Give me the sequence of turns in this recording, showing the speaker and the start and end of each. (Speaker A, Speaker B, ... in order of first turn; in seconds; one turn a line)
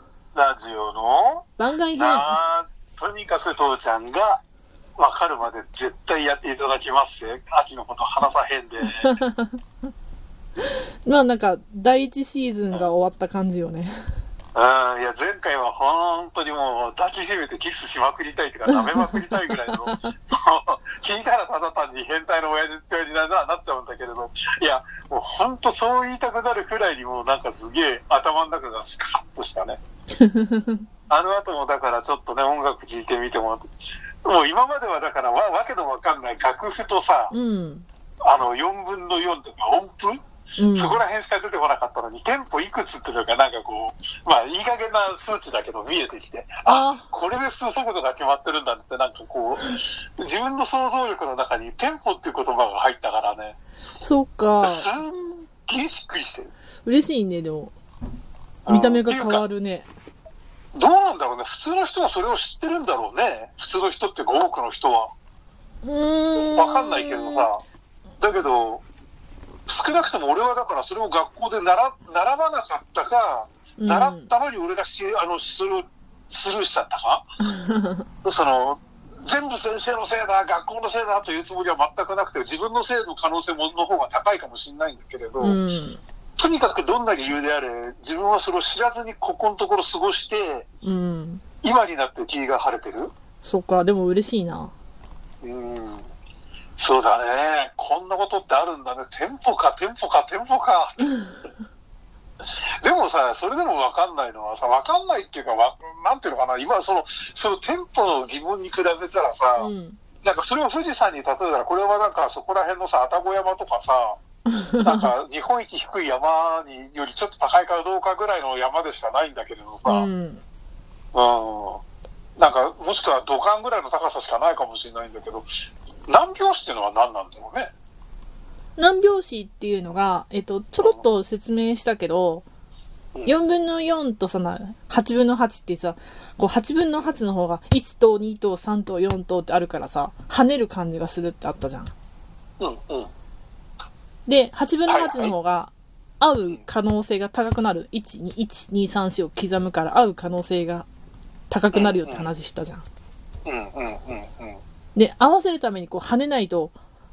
Speaker A: 0.3-4.4
Speaker B: 1.6-2.3
Speaker A: 5.0-9.2
Speaker B: 9.0-9.6
Speaker B: 10.6-13.9
Speaker A: 14.5-29.8
Speaker B: 19.0-20.1
Speaker B: 30.2-30.8
Speaker A: 31.1-33.7
Speaker A: 34.2-37.3
Speaker B: 37.3-37.9
Speaker A: 38.2-40.2
Speaker B: 40.6-41.0
Speaker A: 40.7-53.6
Speaker B: 46.6-47.1
Speaker B: 54.0-54.9
Speaker A: 54.6-56.5
Speaker B: 56.8-57.7
Speaker A: 58.6-59.4
Speaker B: 58.7-59.9
Speaker A: 60.7-65.1
Speaker B: 65.8-67.5
Speaker A: 66.5-67.6
Speaker A: 68.2-68.8
Speaker A: 69.7-77.3
Speaker B: 73.8-74.3
Speaker B: 77.4-78.0
Speaker A: 78.2-85.6
Speaker B: 85.4-86.0
Speaker A: 86.4-90.7
Speaker B: 90.8-91.4
Speaker A: 91.6-93.1
Speaker B: 93.4-94.7
Speaker A: 95.4-96.1
Speaker A: 96.8-101.2
Speaker A: 102.8-109.7
Speaker B: 109.6-110.0
Speaker A: 110.2-114.2
Speaker B: 114.5-115.1
Speaker A: 114.8-120.1
Speaker B: 119.8-120.4
Speaker A: 121.1-121.8
Speaker A: 122.4-125.5
Speaker A: 126.1-127.7
Speaker B: 128.8-132.4
Speaker B: 133.2-141.9
Speaker A: 142.6-143.1
Speaker B: 144.3-150.8
Speaker A: 144.9-145.3
Speaker B: 151.5-152.8
Speaker A: 151.7-152.3
Speaker A: 153.4-154.6
Speaker B: 154.9-156.8